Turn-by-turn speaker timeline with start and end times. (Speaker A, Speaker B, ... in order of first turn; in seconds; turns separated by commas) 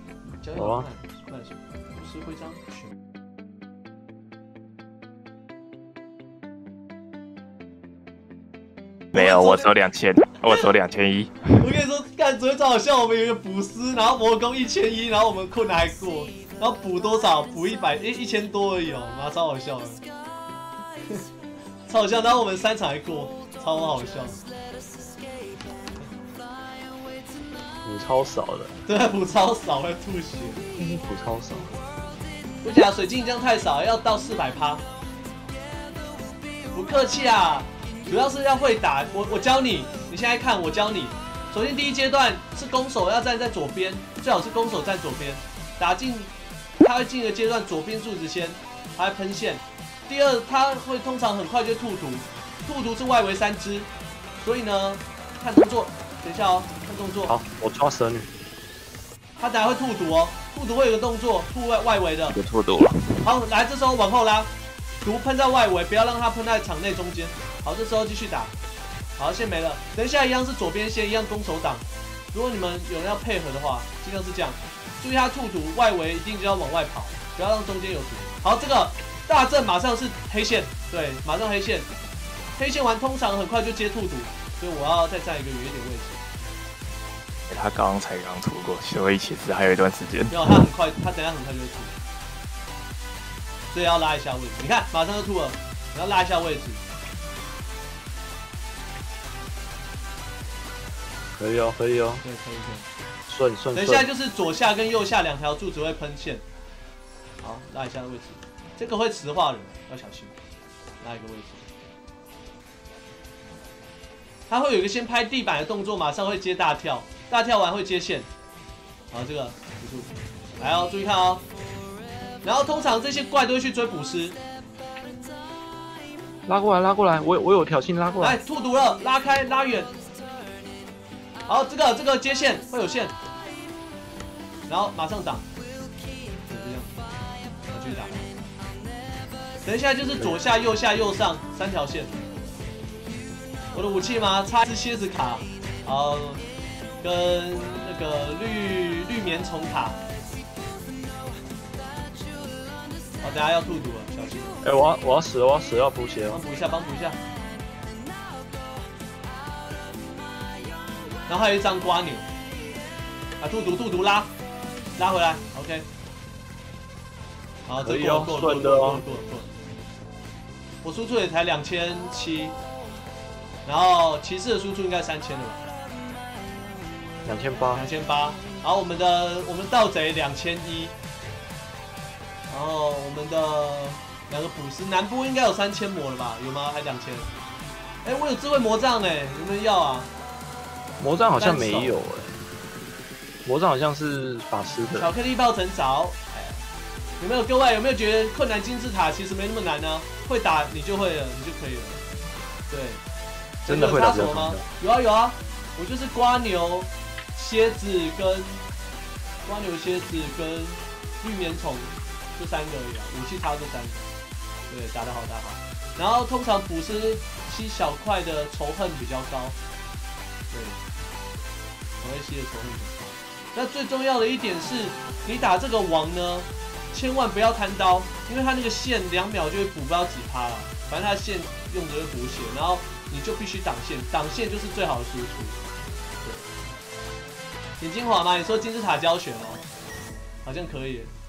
Speaker A: 0.4-2.8, Speaker B: 0.6-0.9, Speaker C: 9.1-11.6, Speaker A: 9.1-9.7, Speaker A: 11.6-20.0, Speaker A: 21.9-24.4, Speaker B: 27.9-28.7, Speaker A: 28.9-30.6, Speaker B: 30.8-31.7, Speaker A: 32.6-34.8, Speaker A: 36.7-57.4, Speaker B: 57.3-58.3, Speaker A: 59.4-62.4, Speaker C: 62.3-63.1, Speaker A: 63.2-64.5, Speaker A: 65.0-68.5, Speaker A: 69.2-81.9, Speaker A: 82.6-86.2, Speaker C: 87.5-90.6, Speaker A: 90.3-91.9, Speaker A: 93.7-96.8, Speaker B: 101.4-102.2, Speaker A: 102.2-102.9, Speaker B: 103.3-104.1, Speaker A: 103.8-106.4, Speaker A: 107.4-110.3, Speaker A: 111.0-111.6, Speaker A: 114.5-118.3, Speaker A: 119.1-121.4, Speaker A: 122.4-124.4, Speaker B: 126.5-128.4, Speaker A: 128.2-129.9, Speaker A: 131.5-133.1, Speaker A: 134.7-135.4, Speaker A: 136.5-137.0, Speaker A: 137.7-138.3, Speaker A: 139.7-142.2, Speaker A: 143.7-146.4, Speaker A: 147.0-150.0, Speaker A: 153.2-154.6, Speaker B: 154.6-156.4, Speaker A: 156.3-157.2, Speaker A: 161.3-162.3, Speaker A: 163.4-164.3, Speaker A: 165.0-165.9, Speaker A: 167.7-169.5, Speaker B: 167.8-169.0, Speaker A: 170.8-172.6, Speaker A: 173.7-175.6, Speaker B: 177.2-177.8, Speaker A: 177.7-180.9, Speaker A: 182.5-187.3, Speaker A: 188.0-190.1, Speaker B: 191.0-192.4, Speaker A: 191.4-192.0, Speaker B: 193.4-195.1, Speaker A: 194.9-196.7, Speaker A: 197.2-202.0, Speaker A: 202.7-203.0, Speaker A: 203.7-208.6, Speaker B: 203.7-204.7, Speaker A: 209.4-214.1, Speaker A: 214.7-219.6, Speaker A: 220.5-220.8, Speaker A: 222.0-235.6, Speaker A: 237.8-239.6, Speaker A: 240.4-241.1